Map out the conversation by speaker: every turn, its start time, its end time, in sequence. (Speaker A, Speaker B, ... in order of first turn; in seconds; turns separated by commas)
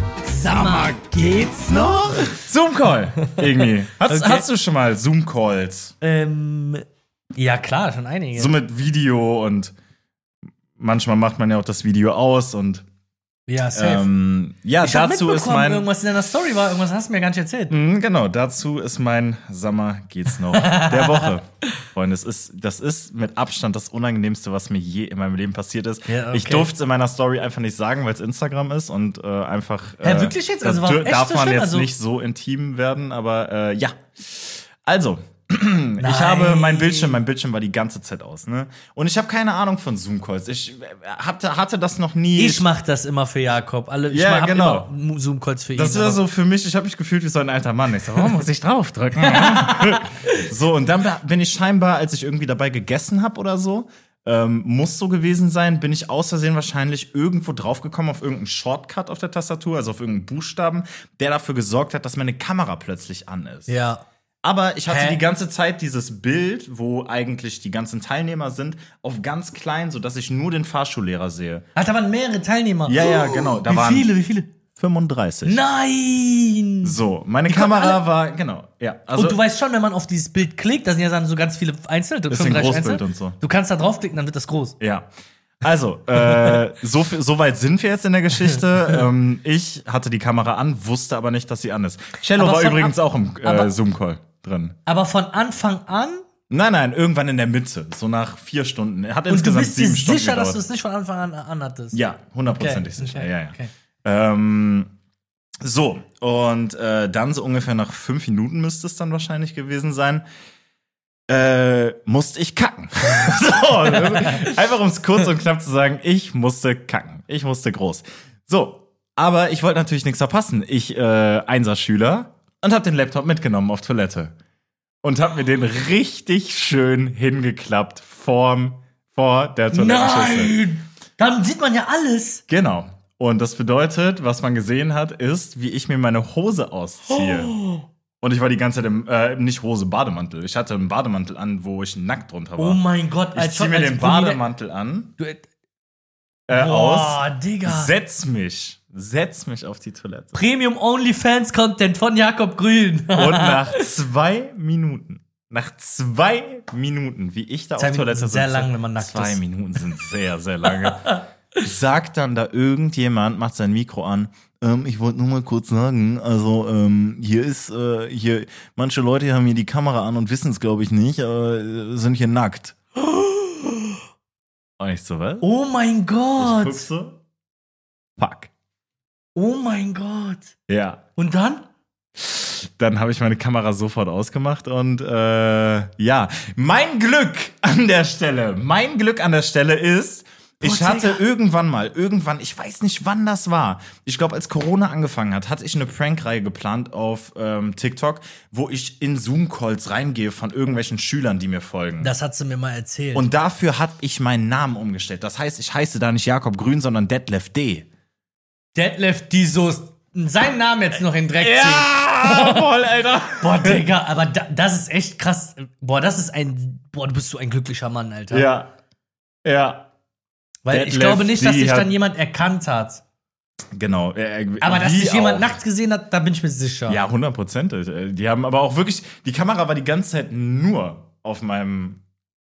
Speaker A: 0.2-2.4, Speaker B: 0.4-6.0, Speaker A: 3.2-4.5, Speaker A: 6.0-6.8, Speaker A: 7.3-8.5, Speaker B: 8.3-9.7, Speaker B: 10.8-12.8, Speaker A: 13.5-14.1, Speaker B: 13.7-15.9, Speaker A: 14.8-17.8, Speaker B: 17.7-42.7, Speaker A: 20.5-21.4, Speaker A: 26.1-26.7, Speaker A: 30.0-31.9, Speaker A: 36.0-37.2, Speaker A: 42.4-46.2, Speaker B: 44.1-44.9, Speaker B: 45.8-63.7, Speaker A: 49.2-50.5, Speaker A: 63.7-64.0, Speaker B: 64.4-71.7, Speaker A: 64.9-65.2, Speaker A: 71.8-74.5, Speaker B: 72.9-74.1, Speaker B: 74.8-75.6, Speaker A: 75.5-77.0, Speaker B: 76.8-79.4, Speaker A: 77.5-78.0, Speaker A: 79.2-84.8, Speaker B: 82.3-83.4, Speaker B: 84.8-85.1, Speaker B: 85.6-94.8, Speaker A: 86.2-86.6, Speaker A: 92.4-93.7, Speaker A: 94.9-96.2, Speaker B: 96.5-100.6, Speaker A: 99.3-103.7, Speaker B: 101.9-104.9, Speaker B: 105.6-110.2, Speaker B: 111.3-124.3, Speaker A: 113.9-114.5, Speaker B: 125.0-130.5, Speaker A: 129.7-132.4, Speaker B: 132.5-137.6, Speaker A: 137.1-137.8, Speaker B: 138.2-142.8, Speaker A: 142.6-144.4, Speaker B: 143.3-145.1, Speaker A: 145.2-145.4, Speaker B: 146.5-150.4, Speaker A: 146.5-147.9, Speaker A: 150.3-153.9, Speaker B: 153.1-172.8, Speaker A: 157.8-159.9, Speaker A: 160.7-161.2, Speaker A: 173.0-174.0, Speaker B: 174.8-175.4, Speaker A: 175.4-176.9, Speaker B: 176.4-177.2, Speaker B: 178.2-178.5, Speaker A: 179.3-180.5, Speaker B: 180.7-181.0, Speaker A: 181.2-181.7, Speaker B: 182.2-202.1, Speaker A: 190.6-191.2, Speaker A: 202.0-203.3, Speaker B: 203.2-207.9, Speaker A: 208.8-212.7, Speaker B: 211.4-213.8, Speaker A: 213.4-218.5, Speaker B: 218.3-218.7, Speaker B: 219.4-219.9, Speaker A: 220.7-223.0, Speaker B: 220.7-221.9, Speaker B: 223.7-225.6, Speaker A: 224.6-227.0, Speaker B: 226.9-232.0